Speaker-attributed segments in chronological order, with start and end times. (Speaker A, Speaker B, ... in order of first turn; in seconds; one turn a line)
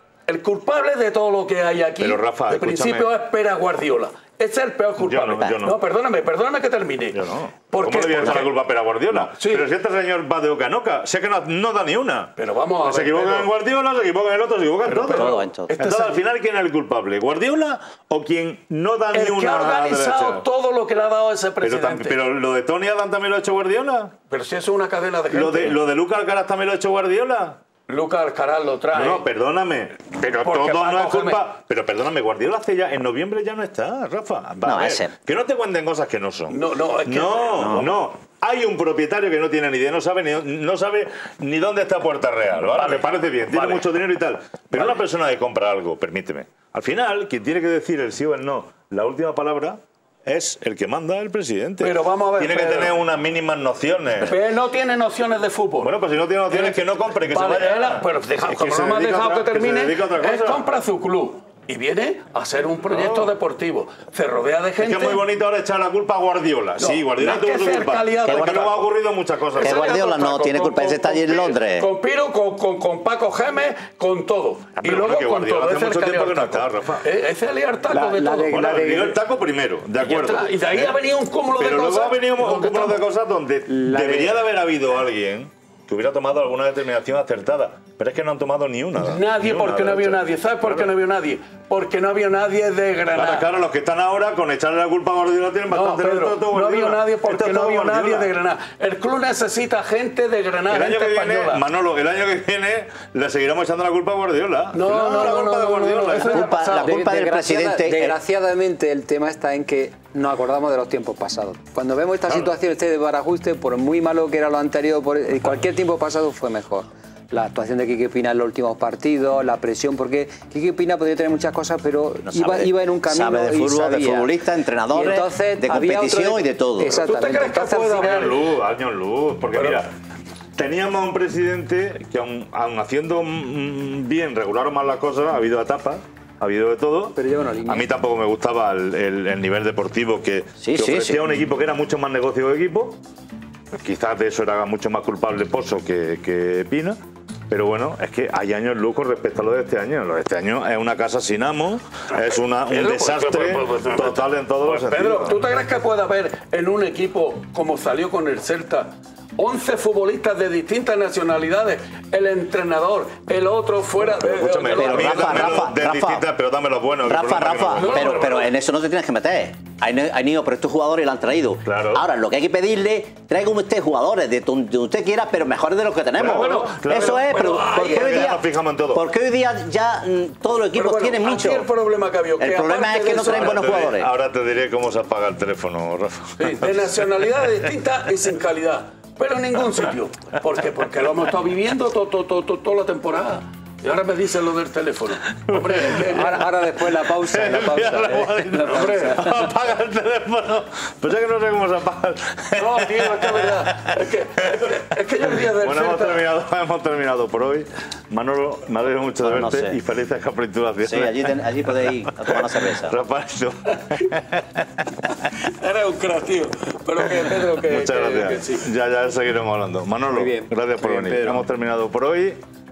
Speaker A: 0.3-8.6
Speaker B: 2.0-3.1
Speaker B: 5.0-5.8
Speaker C: 5.3-5.6
Speaker B: 7.1-12.3
Speaker A: 9.1-9.7
Speaker A: 12.4-13.5
Speaker B: 12.8-20.4
Speaker A: 14.8-16.2
Speaker C: 15.0-15.7
Speaker A: 19.1-22.2
Speaker B: 21.6-24.1
Speaker A: 24.3-25.8
Speaker B: 25.3-27.6
Speaker A: 27.9-29.2
Speaker B: 28.9-54.4
Speaker A: 30.4-31.4
Speaker C: 34.6-35.1
Speaker A: 36.5-37.9
Speaker C: 37.6-37.9
Speaker A: 42.7-43.9
Speaker A: 44.7-45.0
Speaker A: 51.8-53.0
Speaker A: 54.2-55.9
Speaker B: 55.8-60.6
Speaker A: 56.5-65.2
Speaker B: 62.9-63.3
Speaker B: 64.8-70.0
Speaker A: 66.8-68.7
Speaker C: 68.2-68.9
Speaker A: 69.5-78.6
Speaker C: 69.6-71.9
Speaker B: 74.8-77.1
Speaker D: 77.9-79.2
Speaker B: 78.5-81.0
Speaker A: 80.0-83.0
Speaker B: 81.5-90.9
Speaker D: 83.7-84.4
Speaker A: 89.0-93.5
Speaker B: 93.1-98.3
Speaker A: 95.7-101.6
Speaker B: 100.7-106.4
Speaker A: 104.7-107.0
Speaker C: 106.2-108.2
Speaker D: 106.4-124.3
Speaker C: 122.2-127.0
Speaker D: 124.9-128.3
Speaker A: 126.9-128.5
Speaker B: 128.0-129.9
Speaker A: 129.5-129.8
Speaker B: 130.6-143.0
Speaker D: 137.1-137.9
Speaker C: 140.6-141.2
Speaker B: 143.7-147.0
Speaker B: 147.5-155.4
Speaker A: 152.7-165.7
Speaker B: 164.1-168.3
Speaker C: 164.7-166.2
Speaker C: 167.0-181.7
Speaker A: 167.8-168.5
Speaker B: 171.6-172.1
Speaker B: 176.2-179.1
Speaker A: 176.2-178.3
Speaker A: 180.7-183.9
Speaker C: 182.4-184.1
Speaker B: 183.1-187.7
Speaker A: 186.4-196.4
Speaker B: 195.3-215.3
Speaker D: 196.1-198.7
Speaker A: 198.5-199.3
Speaker A: 202.5-206.2
Speaker C: 209.2-209.8
Speaker C: 210.8-213.0
Speaker A: 215.4-218.7
Speaker B: 217.2-222.4
Speaker D: 220.1-221.4